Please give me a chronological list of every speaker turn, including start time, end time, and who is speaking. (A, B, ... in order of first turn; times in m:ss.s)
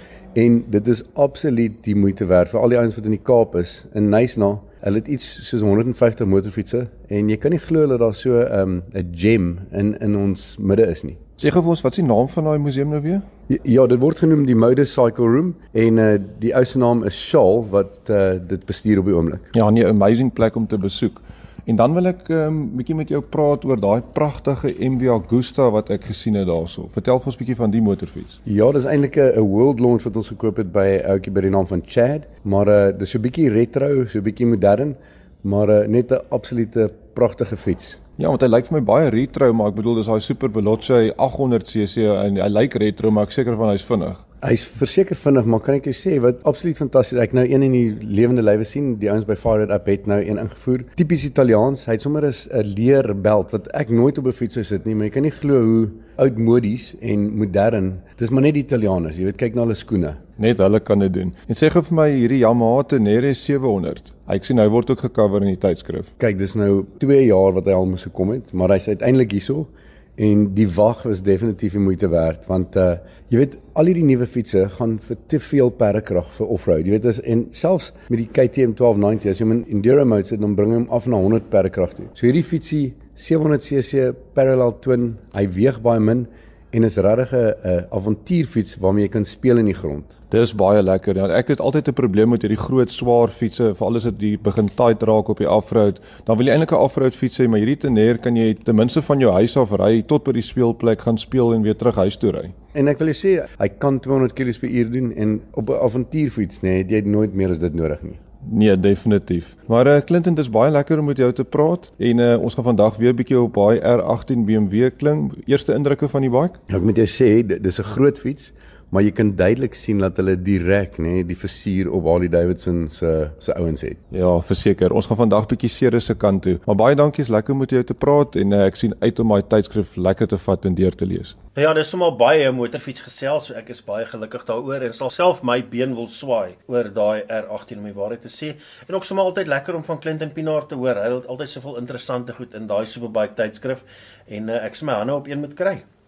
0:00.3-0:11.2 A
0:11.4-0:13.3 B
0:13.5-0:19.5 A
0:19.5-0:28.4 B
0:28.4-0:38.0 A
0:38.2-0:44.2 B
0:44.4-1:00.2 A
1:00.4-1:06.1 B
1:06.2-1:30.2 A
1:30.3-1:42.5 B
1:42.7-1:48.2 A
1:48.4-1:56.6 B
1:56.7-2:04.0 A
2:04.1-2:11.4 B
2:11.6-2:25.8 C